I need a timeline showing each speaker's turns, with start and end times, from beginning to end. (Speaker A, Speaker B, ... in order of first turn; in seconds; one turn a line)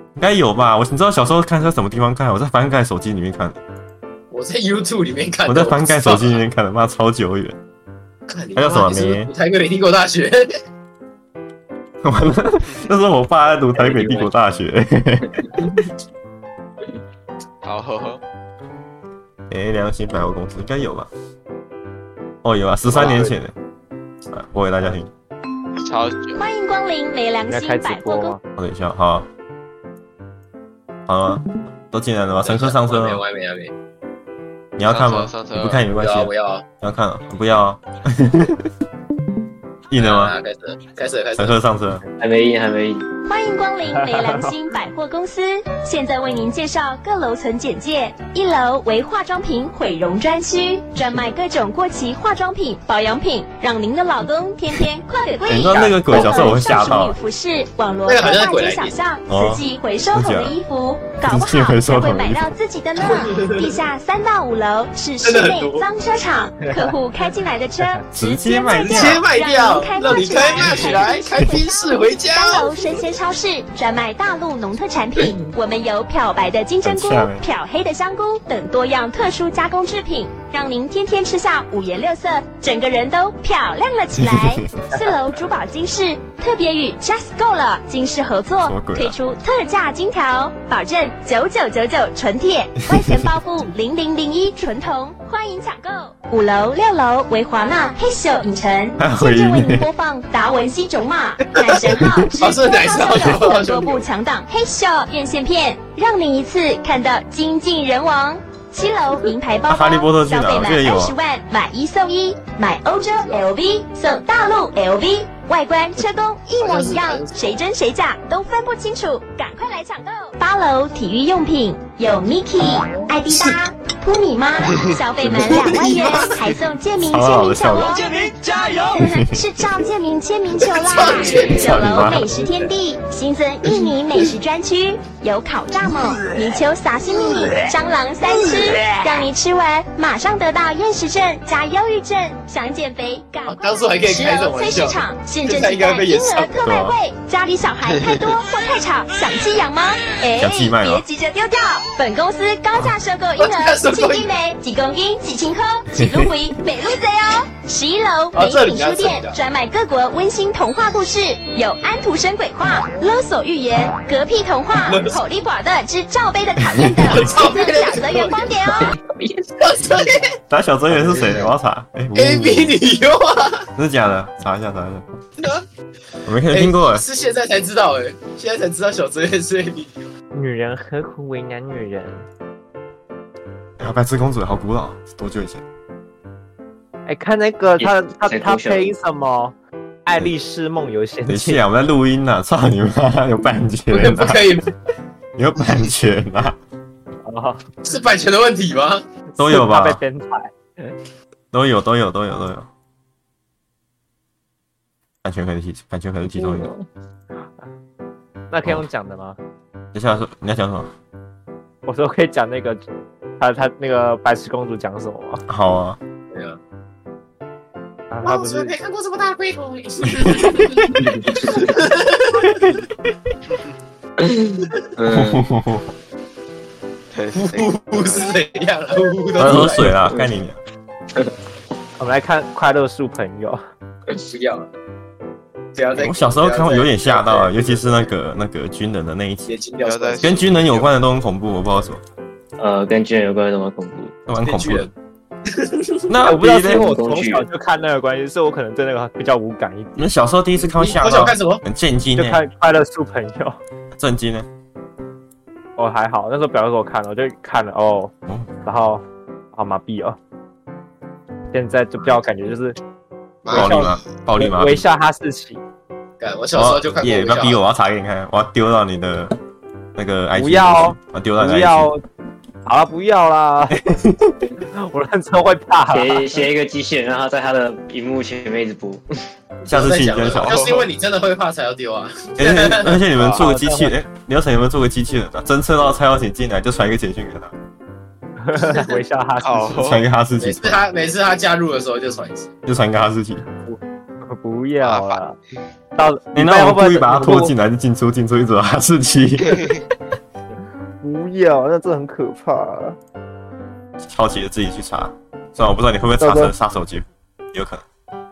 Speaker A: 0.2-3.6
Speaker B: 4.3-6.4
Speaker A: 5.5-7.6
Speaker B: 8.3-10.6
Speaker A: 8.6-9.3
Speaker A: 12.0-15.7
Speaker C: 13.8-14.3
Speaker D: 17.6-18.2
Speaker A: 19.5-21.1
Speaker A: 22.4-23.5
Speaker B: 22.9-23.4
Speaker A: 24.3-25.1
Speaker D: 25.8-26.5
Speaker E: 26.4-28.4
Speaker F: 27.5-28.4
Speaker A: 28.6-29.3
Speaker A: 31.1-33.2
Speaker B: 32.4-33.7
Speaker A: 34.8-38.7
Speaker D: 34.8-35.9
Speaker B: 35.9-36.6
Speaker A: 39.9-40.4
Speaker B: 40.0-41.6
Speaker A: 41.4-42.0
Speaker C: 42.2-43.1
Speaker E: 43.3-128.2
Speaker F: 44.0-44.4
Speaker A: 55.5-57.2
Speaker B: 58.1-59.0
Speaker A: 59.3-60.5
Speaker A: 61.2-62.5
Speaker B: 63.0-63.8
Speaker B: 65.2-65.9
Speaker A: 68.2-69.2
Speaker B: 68.8-73.0
Speaker D: 70.6-70.9
Speaker A: 76.8-77.4
Speaker A: 84.2-85.0
Speaker A: 88.6-89.2
Speaker A: 92.9-93.3
Speaker A: 99.0-99.9
Speaker B: 101.5-104.1
Speaker A: 109.7-111.2
Speaker B: 113.1-113.5
Speaker B: 116.6-117.6
Speaker B: 122.9-123.4
Speaker B: 125.4-126.4
Speaker A: 127.0-128.1
Speaker E: 128.9-169.0
Speaker A: 128.9-129.4
Speaker B: 130.7-131.9
Speaker A: 131.4-132.4
Speaker B: 143.5-146.6
Speaker A: 146.6-147.0
Speaker A: 150.4-151.0
Speaker B: 153.4-154.3
Speaker A: 155.9-156.3
Speaker B: 158.3-159.4
Speaker B: 164.8-165.2
Speaker A: 166.6-167.3
Speaker B: 167.0-168.9
Speaker C: 168.8-169.8
Speaker B: 169.6-170.3
Speaker A: 170.5-172.8
Speaker B: 172.2-173.7
Speaker A: 173.8-175.1
Speaker B: 175.4-175.7
Speaker A: 176.3-177.1
Speaker B: 176.5-180.0
Speaker F: 180.3-182.3
Speaker A: 183.8-185.6
Speaker F: 187.1-191.6
Speaker C: 187.8-188.9
Speaker A: 191.3-194.6
Speaker B: 193.9-194.7
Speaker A: 195.4-196.6
Speaker F: 197.2-197.6
Speaker B: 197.8-199.0
Speaker F: 199.3-200.9
Speaker A: 199.4-200.0
Speaker A: 201.5-202.7
Speaker A: 205.2-206.7
Speaker C: 206.4-206.8
Speaker F: 208.5-209.4
Speaker A: 209.9-210.9
Speaker F: 211.9-212.8
Speaker F: 213.4-215.4
Speaker A: 215.5-216.0
Speaker B: 216.3-216.6
Speaker F: 218.1-218.7
Speaker B: 218.2-222.7
Speaker A: 220.1-220.9
Speaker C: 221.0-221.8
Speaker C: 224.2-225.4
Speaker A: 225.1-225.9
Speaker D: 227.1-228.3
Speaker B: 227.4-229.9
Speaker A: 229.4-230.6
Speaker C: 229.5-230.3
Speaker F: 232.0-233.6
Speaker B: 234.2-234.7
Speaker B: 235.8-238.1
Speaker A: 235.9-239.5
Speaker B: 239.5-240.8
Speaker D: 239.8-240.9
Speaker A: 240.2-242.0
Speaker C: 242.6-244.1
Speaker A: 244.3-244.9
Speaker B: 244.4-244.9
Speaker B: 245.5-246.2
Speaker A: 246.1-246.9
Speaker F: 246.2-250.0
Speaker C: 246.5-247.5
Speaker A: 250.0-252.4
Speaker B: 250.6-251.6
Speaker F: 252.2-253.6
Speaker A: 254.0-254.5
Speaker F: 255.8-258.1
Speaker F: 258.6-260.2
Speaker F: 261.5-262.8
Speaker B: 263.4-263.9
Speaker A: 263.5-264.9
Speaker F: 263.5-265.6
Speaker B: 266.2-267.6
Speaker A: 266.5-269.4
Speaker A: 269.9-271.9
Speaker F: 270.4-272.0
Speaker F: 272.6-273.8
Speaker A: 273.7-274.4
Speaker F: 274.7-276.4
Speaker C: 275.9-279.1
Speaker B: 279.6-283.2
Speaker A: 279.7-280.6
Speaker D: 280.3-280.9
Speaker A: 282.4-287.5
Speaker F: 283.4-283.9
Speaker F: 288.4-289.9
Speaker D: 289.4-290.0
Speaker A: 289.8-290.8
Speaker B: 290.4-292.5
Speaker A: 292.7-293.4
Speaker F: 293.6-295.4
Speaker D: 294.8-295.2
Speaker F: 296.0-297.5
Speaker A: 296.3-299.7
Speaker D: 299.5-299.8
Speaker F: 301.0-303.0
Speaker A: 304.0-307.8
Speaker F: 306.2-306.5